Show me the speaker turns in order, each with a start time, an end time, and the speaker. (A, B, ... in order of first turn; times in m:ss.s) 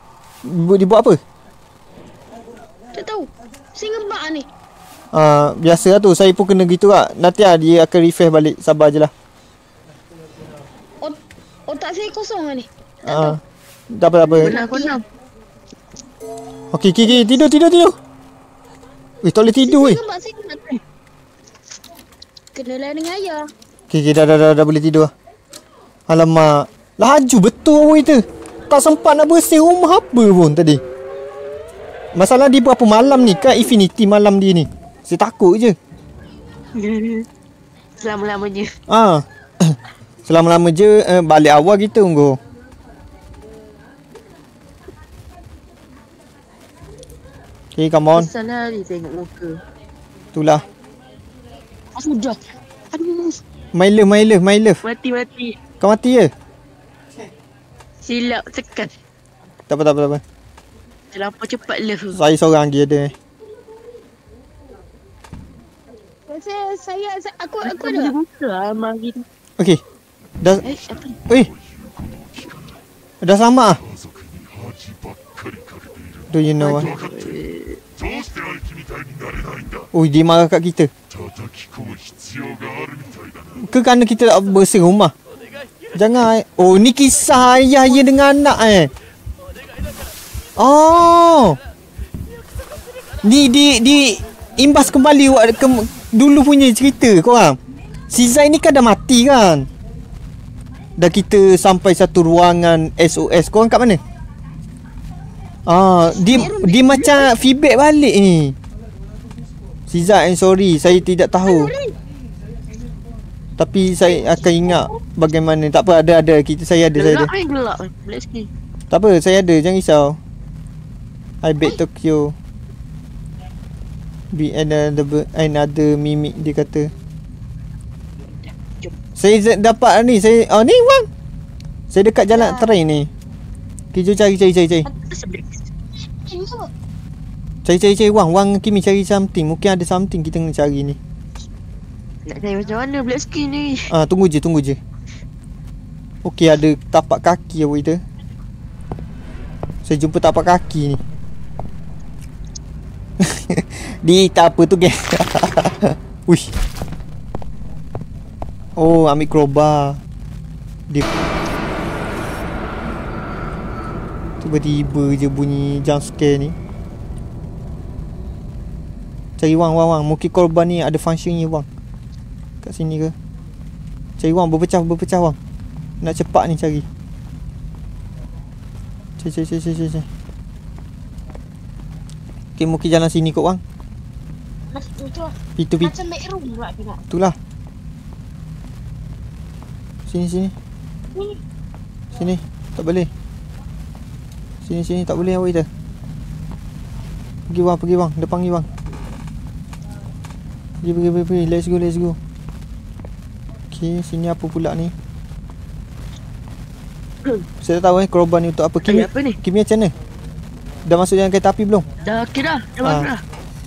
0:00.4-0:01.2 A
0:02.9-0:04.5 B
0:05.1-0:09.1 A
0:11.0-0:13.4 B
0:13.0-0:13.4 A
0:13.9-0:14.6 A
0:14.3-0:14.9 B
0:14.4-0:15.0 C
0:16.7-0:18.0 A
0:17.1-0:17.4 B
0:19.2-0:20.0 A
0:19.6-0:20.8 B
0:22.5-0:23.5 B
0:23.9-0:25.1 A
0:26.1-0:30.8 A
0:32.1-0:35.8 A
0:36.7-0:37.2 C
0:38.0-0:38.7 C
0:38.9-0:42.4 A
0:47.7-0:48.3 A
0:48.1-0:49.6 C
0:50.3-0:50.6 A
0:52.0-0:52.4 C
0:52.9-0:53.3 C
0:53.7-0:54.8 A
0:54.8-0:55.6 C
0:55.8-0:56.3 A
0:58.0-0:58.9 C
0:59.7-1:00.2 A
1:01.1-1:02.2 C
1:02.1-1:03.1 A
1:06.3-1:08.1 B
1:07.6-1:09.2 C
1:10.6-1:11.2 C
1:13.2-1:13.8 A
1:16.3-1:16.9 A
1:16.6-1:18.2 C
1:19.9-1:20.9 A
1:23.6-1:25.1 A
1:25.9-1:28.9 A
1:30.6-1:31.6 A
1:33.2-1:37.6 A
1:38.1-1:39.7 A
1:41.0-1:44.0 A
1:45.7-1:48.6 A
1:46.0-1:47.3 B
1:49.9-1:51.7 A
1:51.4-1:51.9 B
1:53.6-1:57.3 A
1:54.0-1:55.0 B
1:56.9-1:58.5 C
1:58.9-2:00.2 A
2:01.4-2:02.3 A
2:04.3-2:06.9 A
2:09.2-2:11.1 A
2:11.9-2:13.1 A
2:12.3-2:12.7 B
2:13.9-2:14.8 A
2:15.0-2:15.6 C
2:16.2-2:16.7 B
2:17.6-2:21.0 A
2:22.3-2:23.9 C
2:23.9-2:24.8 A
2:26.2-2:28.0 A
2:29.8-2:31.0 A
2:33.2-2:36.5 A
2:38.8-2:40.0 A
2:44.4-2:46.6 A
2:49.4-2:51.7 A
2:52.6-2:53.1 A
2:54.2-2:55.4 A
2:56.0-2:56.8 A
2:59.2-3:00.0 A
3:02.6-3:03.6 A
3:04.7-3:07.0 B
3:05.6-3:05.9 A
3:07.1-3:07.4 A
3:10.1-3:10.5 A
3:12.1-3:13.1 A
3:14.6-3:15.7 A
3:17.5-3:18.7 A
3:20.8-3:22.2 A
3:23.7-3:24.9 A
3:27.6-3:29.9 A
3:28.8-3:29.4 C
3:30.8-3:31.8 A
3:32.0-3:33.2 C
3:32.8-3:33.1 A